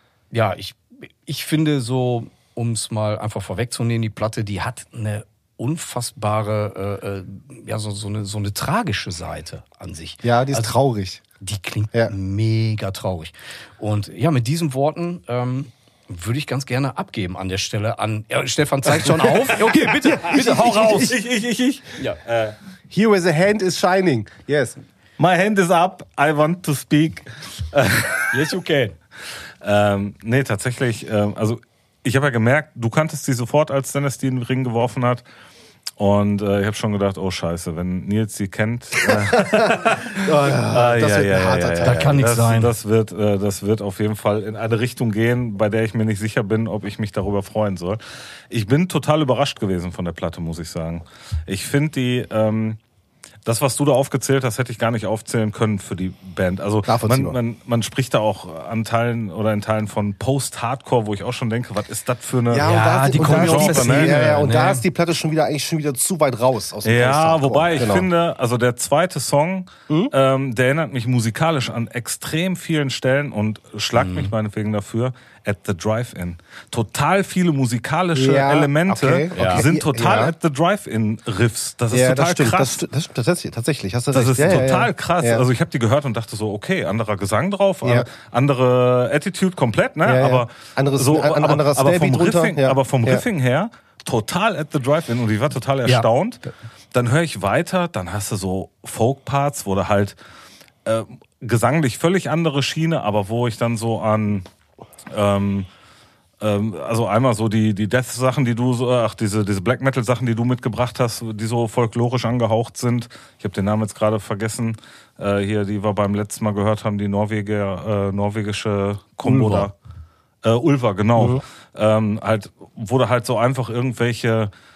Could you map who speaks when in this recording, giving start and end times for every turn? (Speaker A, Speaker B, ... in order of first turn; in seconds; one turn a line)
Speaker A: 0.3-10.7
Speaker B: 10.2-11.2
Speaker A: 11.4-21.1
Speaker B: 19.4-21.1
Speaker C: 20.2-22.6
Speaker B: 22.9-24.8
Speaker C: 25.2-28.3
Speaker A: 28.3-28.9
Speaker C: 29.6-35.2
Speaker C: 36.0-52.8
Speaker B: 39.0-42.1
Speaker A: 41.8-42.7
Speaker C: 53.4-64.2
Speaker B: 56.9-57.4
Speaker B: 62.5-68.1
Speaker A: 62.6-64.8
Speaker C: 66.8-82.8
Speaker A: 74.0-74.3
Speaker B: 78.1-80.3
Speaker A: 79.3-79.7
Speaker B: 81.9-85.5
Speaker C: 84.1-100.2
Speaker B: 87.8-88.1
Speaker B: 90.0-93.2
Speaker C: 100.8-104.5
Speaker C: 105.1-105.7
Speaker C: 106.4-119.7
Speaker B: 119.2-119.7
Speaker C: 120.4-124.5
Speaker B: 121.2-121.4